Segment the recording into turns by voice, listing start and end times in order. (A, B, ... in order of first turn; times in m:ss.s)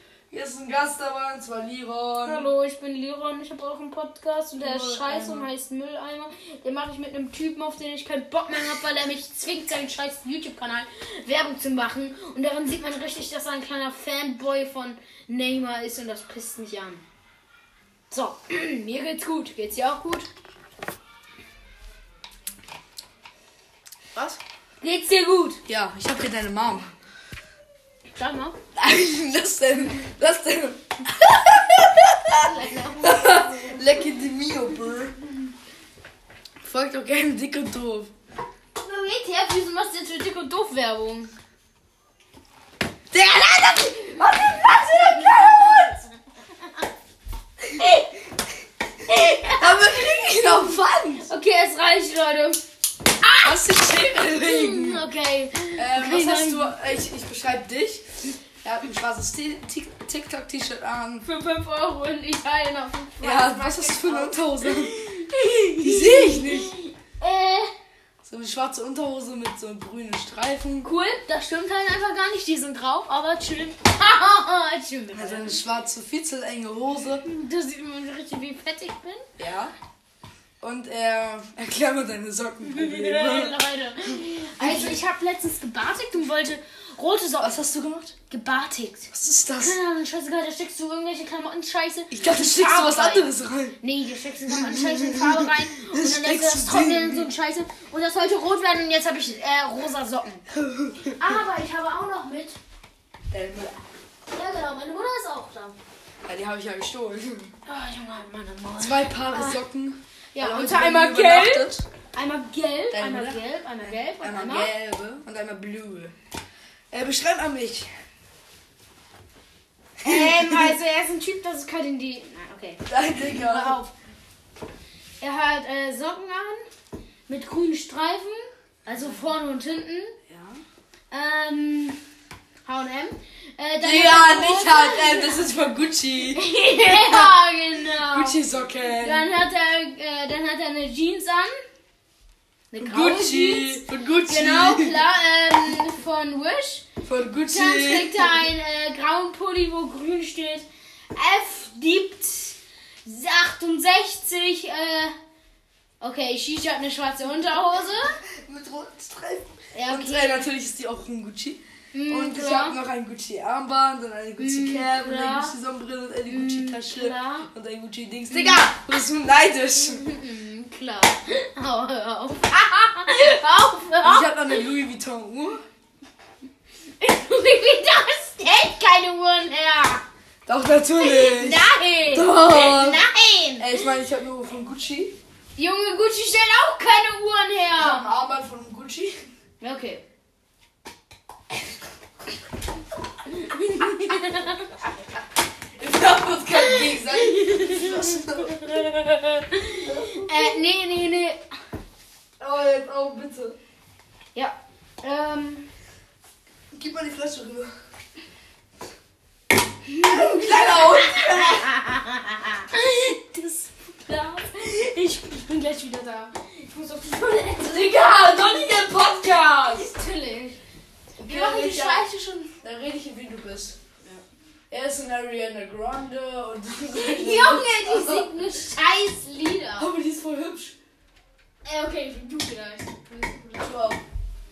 0:00.3-0:02.5 A
0:02.3-0:17.0 B
0:04.6-0:05.5 A
0:18.1-0:20.3 B
0:24.2-0:25.6 B
0:25.7-0:26.9 A
0:28.2-0:28.6 B
0:28.8-0:35.2 A
0:32.3-0:33.7 B
0:36.6-0:38.1 A
0:38.8-0:41.3 B
0:43.1-0:46.0 A
0:44.0-0:46.8 B
0:47.8-0:48.2 B
0:49.1-0:50.0 B
0:49.1-0:51.3 A
0:51.3-0:52.6 B
0:53.2-0:53.6 B
0:53.4-0:55.1 A
0:54.2-0:56.8 B
0:55.8-1:01.3 A
1:01.2-1:07.7 B
1:03.2-1:05.1 A
1:05.8-1:06.8 A
1:08.2-1:10.9 A
1:10.8-1:15.6 B
1:15.1-1:17.2 A
1:17.2-1:19.3 B
1:19.4-1:19.7 A
1:20.6-1:25.0 A
1:22.6-1:27.6 B
1:27.4-1:28.1 A
1:28.3-1:40.4 B
1:29.1-1:29.8 A
1:32.1-1:33.8 A
1:34.5-1:37.3 A
1:40.5-1:41.4 A
1:41.1-1:42.6 B
1:43.3-1:43.8 A
1:44.3-1:45.8 B
1:46.3-1:47.6 A
1:47.6-1:49.6 B
1:48.8-1:51.9 A
1:50.4-1:54.7 B
1:52.9-1:56.2 A
1:56.9-1:57.9 A
2:00.0-2:00.8 A
2:00.0-2:03.9 B
2:02.9-2:03.8 A
2:05.2-2:06.7 B
2:07.3-2:10.2 B
2:08.9-2:09.3 A
2:10.3-2:10.6 A
2:11.1-2:12.0 B
2:12.6-2:15.6 B
2:13.8-2:17.3 A
2:16.3-2:21.5 B
2:17.9-2:19.3 A
2:22.7-2:26.9 B
2:22.8-2:25.1 A
2:27.0-2:28.5 A
2:27.5-2:35.2 B
2:36.0-2:38.2 B
2:37.9-2:50.1 A
2:39.7-2:40.4 B
2:41.9-2:42.8 B
2:44.4-2:45.6 B
2:46.3-2:47.5 B
2:48.3-2:48.8 B
2:49.8-2:54.6 B
2:54.0-2:55.6 A
2:57.0-3:00.1 B
3:00.5-3:05.2 A
3:01.0-3:04.0 B
3:05.6-3:08.1 B
3:07.8-3:09.2 A
3:09.6-3:10.0 B
3:13.2-3:14.9 B
3:15.8-3:18.9 A
3:16.6-3:21.5 B
3:19.7-3:20.6 A
3:22.4-3:23.6 A
3:24.3-3:25.7 B
3:26.7-3:27.7 A
3:29.9-3:40.6 B
3:30.0-3:31.8 A
3:37.6-3:39.9 A
3:41.2-3:44.2 A
3:41.2-3:42.5 B
3:44.7-3:48.6 A
3:46.9-3:49.9 B
3:49.8-3:50.8 A
3:51.6-3:53.9 B
3:53.6-3:54.0 A